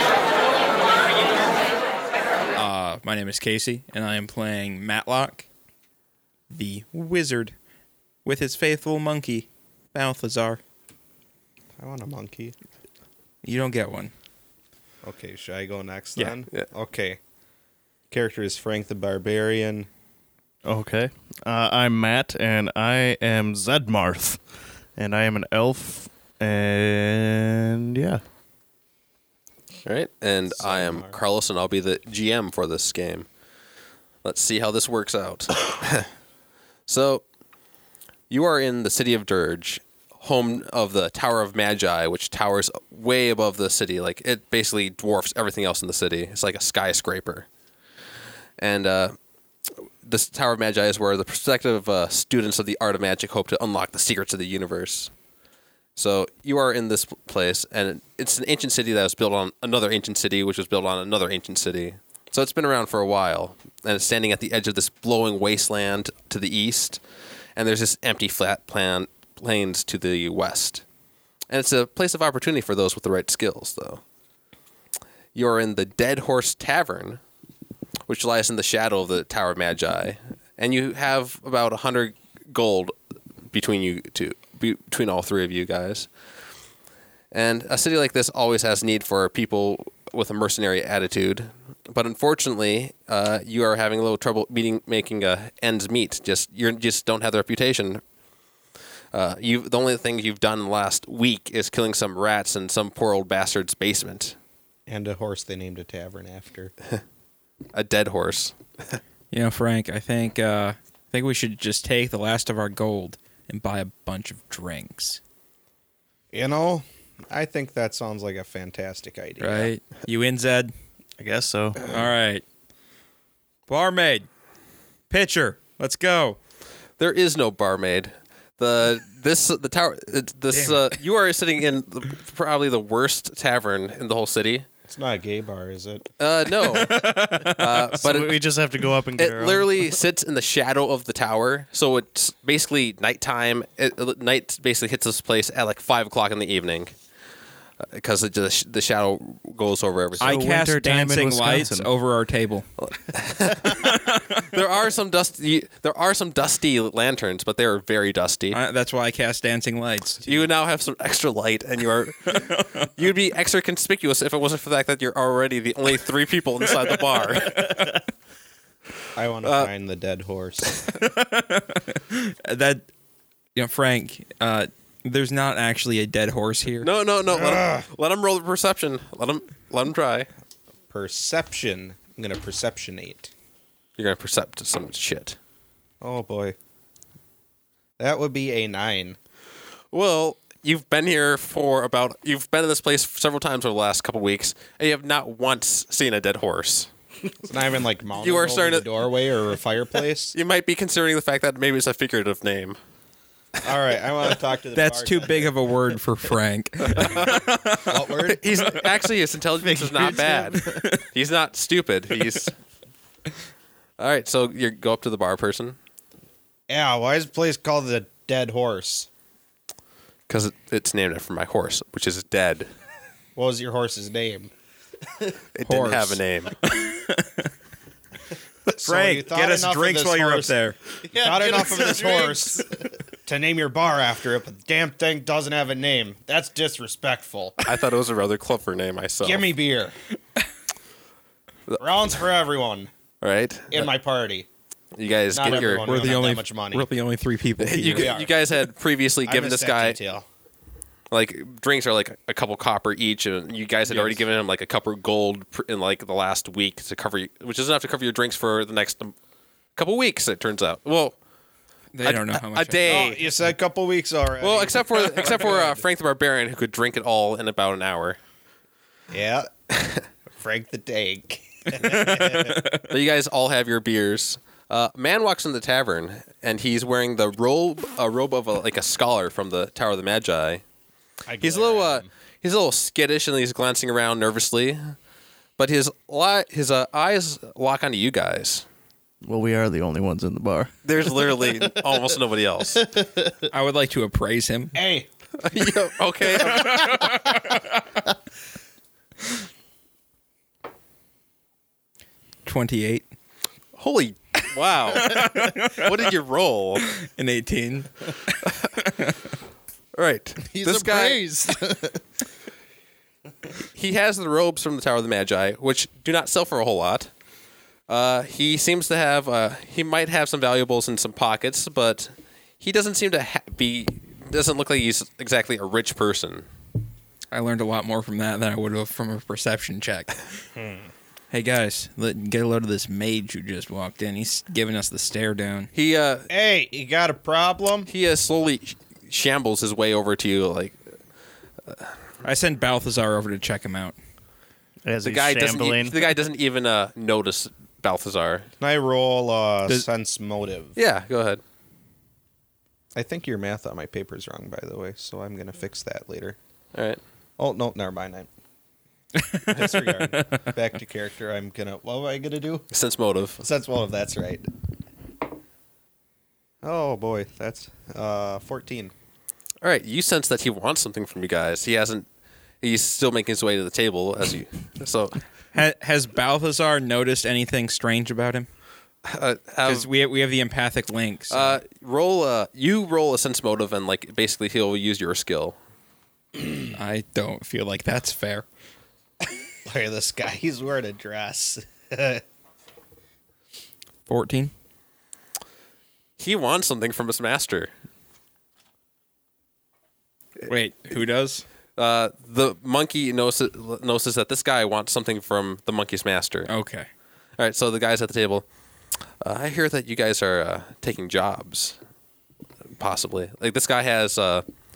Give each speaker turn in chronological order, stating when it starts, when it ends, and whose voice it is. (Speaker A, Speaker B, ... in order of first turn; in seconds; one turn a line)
Speaker A: 2.5-5.5
Speaker A: 6.5-7.5
Speaker A: 8.2-10.6
Speaker B: 11.8-12.5
Speaker A: 13.4-14.1
Speaker B: 15.0-17.2
Speaker B: 18.1-19.9
Speaker C: 20.6-24.4
Speaker C: 24.9-28.2
Speaker D: 29.8-33.3
Speaker B: 30.5-31.2
Speaker D: 34.2-36.1
Speaker D: 36.9-37.2
Speaker D: 38.3-47.5
Speaker D: 48.6-49.1
Speaker D: 49.7-55.1
Speaker D: 56.0-67.0
Speaker D: 67.5-70.8
Speaker D: 71.5-74.0
Speaker D: 75.3-77.2
Speaker D: 78.1-82.9
Speaker D: 83.5-86.1
Speaker D: 87.3-98.0
Speaker D: 99.1-104.3
Speaker B: 104.9-106.7
Speaker D: 107.7-109.0
Speaker A: 109.3-115.2
Speaker B: 116.3-119.7
Speaker A: 119.4-120.7
Speaker C: 121.2-121.8
Speaker A: 121.8-122.4
Speaker A: 123.7-124.3
Speaker A: 125.1-126.4
Speaker D: 127.0-134.7
Speaker A: 130.5-130.8
Speaker B: 134.9-136.0
Speaker D: 136.2-138.4
Speaker A: 136.5-137.9
Speaker C: 137.9-139.9
Speaker D: 139.2-146.9
Speaker D: 147.8-150.4
Speaker C: 150.2-151.9
Speaker A: 150.2-152.7
Speaker D: 152.8-158.6
Speaker A: 153.6-154.4
Speaker A: 158.5-160.4
Speaker D: 160.2-167.8
Speaker A: 162.3-162.9
Speaker A: 166.7-168.0
Speaker B: 169.1-170.8
Speaker D: 169.4-169.7
Speaker A: 170.9-172.8
Speaker A: 173.5-176.9
Speaker D: 176.8-180.3
Speaker B: 177.3-177.8
Speaker B: 180.9-183.3
Speaker D: 184.0-185.4
Speaker B: 186.0-186.6
Speaker B: 188.0-189.2
Speaker D: 189.9-196.9
Speaker B: 197.4-200.3
Speaker D: 198.2-198.9
Speaker D: 200.3-202.8
Speaker B: 203.6-205.5
Speaker A: 204.7-208.9
Speaker D: 206.9-207.4
Speaker B: 207.8-208.7
Speaker D: 208.3-212.5
Speaker C: 209.6-210.8
Speaker A: 210.6-211.0
Speaker D: 214.0-215.8
Speaker B: 216.7-219.1
Speaker D: 220.3-222.7
Speaker B: 223.3-224.5
Speaker D: 225.5-226.6
Speaker A: 225.7-227.5
Speaker A: 228.7-230.8
Speaker B: 228.8-230.6
Speaker C: 231.0-232.9
Speaker B: 231.1-232.7
Speaker B: 233.2-237.6
Speaker D: 237.6-239.4
Speaker B: 239.2-239.9
Speaker B: 241.8-242.9
Speaker D: 243.2-243.9
Speaker B: 243.7-244.5
Speaker D: 244.9-245.8
Speaker B: 245.3-246.9
Speaker A: 245.4-248.1
Speaker D: 247.6-250.0
Speaker B: 247.9-248.4
Speaker B: 249.2-250.2
Speaker D: 251.1-259.1
Speaker B: 253.9-254.2
Speaker D: 259.8-261.1
Speaker A: 261.9-263.1
Speaker D: 262.0-263.2
Speaker B: 262.9-265.8
Speaker D: 264.4-268.2
Speaker B: 269.1-269.5
Speaker D: 269.7-270.0
Speaker B: 270.3-272.6
Speaker A: 271.7-272.9
Speaker D: 272.7-280.6
Speaker B: 281.3-282.1
Speaker D: 281.4-284.9
Speaker D: 285.6-288.6
Speaker C: 289.2-291.9
Speaker D: 290.8-292.8
Speaker C: 292.8-293.3
Speaker A: 293.5-294.8
Speaker B: 294.7-295.1
Speaker D: 295.4-296.9
Speaker A: 296.4-297.8
Speaker A: 302.4-303.1
Speaker D: 303.8-306.8
Speaker A: 304.9-306.1
Speaker A: 306.8-309.2
Speaker D: 309.9-311.2
Speaker C: 310.4-312.0
Speaker D: 313.7-317.1
Speaker D: 317.9-326.4
Speaker A: 327.3-330.1
Speaker B: 330.5-330.9
Speaker A: 331.3-335.7
Speaker D: 335.7-336.3
Speaker B: 336.3-337.9
Speaker D: 337.9-340.8
Speaker A: 342.2-344.0
Speaker C: 344.8-346.0
Speaker D: 345.0-348.5
Speaker B: 348.6-350.8
Speaker D: 350.8-351.4
Speaker B: 352.9-356.4
Speaker D: 356.7-357.0
Speaker B: 357.4-358.3
Speaker A: 359.2-360.5
Speaker B: 359.5-362.6
Speaker D: 362.7-363.4
Speaker B: 363.4-364.5
Speaker B: 366.6-368.9
Speaker D: 369.6-372.1
Speaker D: 372.6-375.2
Speaker A: 375.5-378.5
Speaker D: 379.0-379.9
Speaker A: 379.6-381.6
Speaker D: 381.3-385.6
Speaker A: 386.7-388.4
Speaker B: 389.6-392.2
Speaker A: 394.1-394.5
Speaker D: 396.2-397.7
Speaker A: 400.5-401.4
Speaker D: 401.8-406.5
Speaker A: 406.5-406.9
Speaker D: 407.4-408.4
Speaker D: 409.2-411.8
Speaker D: 412.8-414.4